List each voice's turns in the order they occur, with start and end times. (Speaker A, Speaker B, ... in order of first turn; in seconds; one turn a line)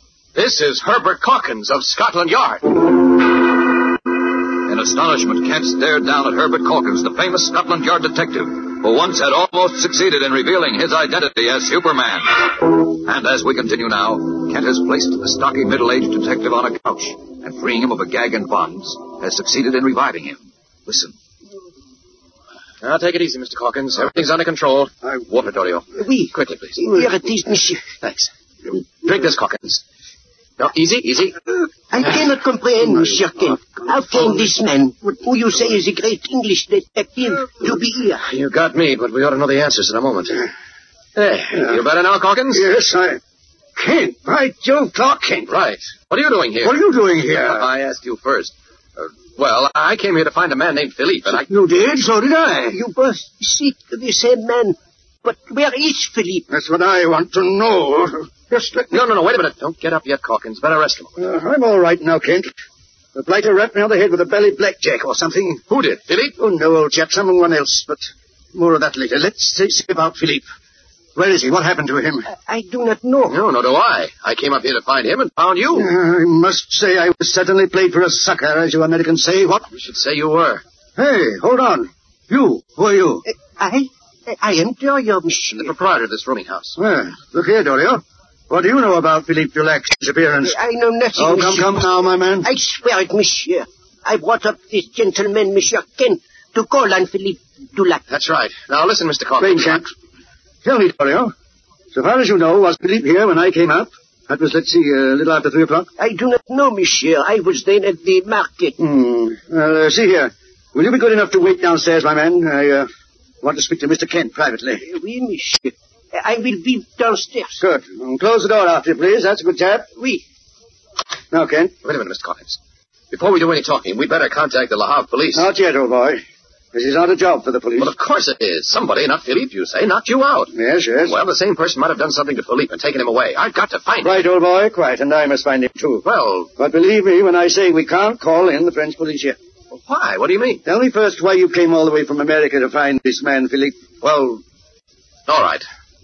Speaker A: 0.3-2.8
Speaker B: 4.7-21.1
Speaker A: 22.8-26.9
Speaker C: 26.0-27.9
Speaker A: 28.0-29.8
Speaker A: 30.6-31.4
Speaker C: 31.9-38.2
Speaker D: 33.0-34.5
Speaker A: 38.2-40.4
Speaker A: 41.1-42.6
Speaker D: 42.5-43.2
Speaker D: 43.7-45.5
Speaker A: 45.5-51.5
Speaker D: 46.6-47.7
Speaker D: 51.3-52.8
Speaker C: 52.7-56.4
Speaker D: 56.5-59.0
Speaker A: 58.9-61.1
Speaker D: 61.2-62.5
Speaker D: 63.1-65.6
Speaker A: 65.7-66.3
Speaker D: 66.4-70.5
Speaker D: 71.1-72.2
Speaker C: 72.3-73.4
Speaker A: 73.3-75.9
Speaker D: 75.7-79.7
Speaker A: 79.7-80.6
Speaker D: 81.0-83.2
Speaker C: 83.3-85.7
Speaker A: 85.5-86.8
Speaker D: 86.8-90.5
Speaker C: 90.4-91.9
Speaker D: 91.2-92.5
Speaker C: 92.4-98.0
Speaker A: 98.1-99.8
Speaker D: 99.4-99.8
Speaker D: 100.6-101.3
Speaker D: 101.9-105.9
Speaker C: 106.0-108.7
Speaker D: 108.8-112.9
Speaker D: 113.4-114.8
Speaker C: 114.8-117.6
Speaker D: 117.6-120.0
Speaker D: 121.3-121.7
Speaker A: 121.8-122.6
Speaker A: 123.1-125.5
Speaker D: 125.3-126.2
Speaker D: 126.7-127.9
Speaker A: 127.8-130.5
Speaker D: 130.5-131.2
Speaker A: 131.1-134.3
Speaker D: 134.0-139.4
Speaker A: 136.0-136.5
Speaker A: 139.7-140.6
Speaker D: 140.6-144.0
Speaker A: 144.0-144.4
Speaker A: 145.3-145.6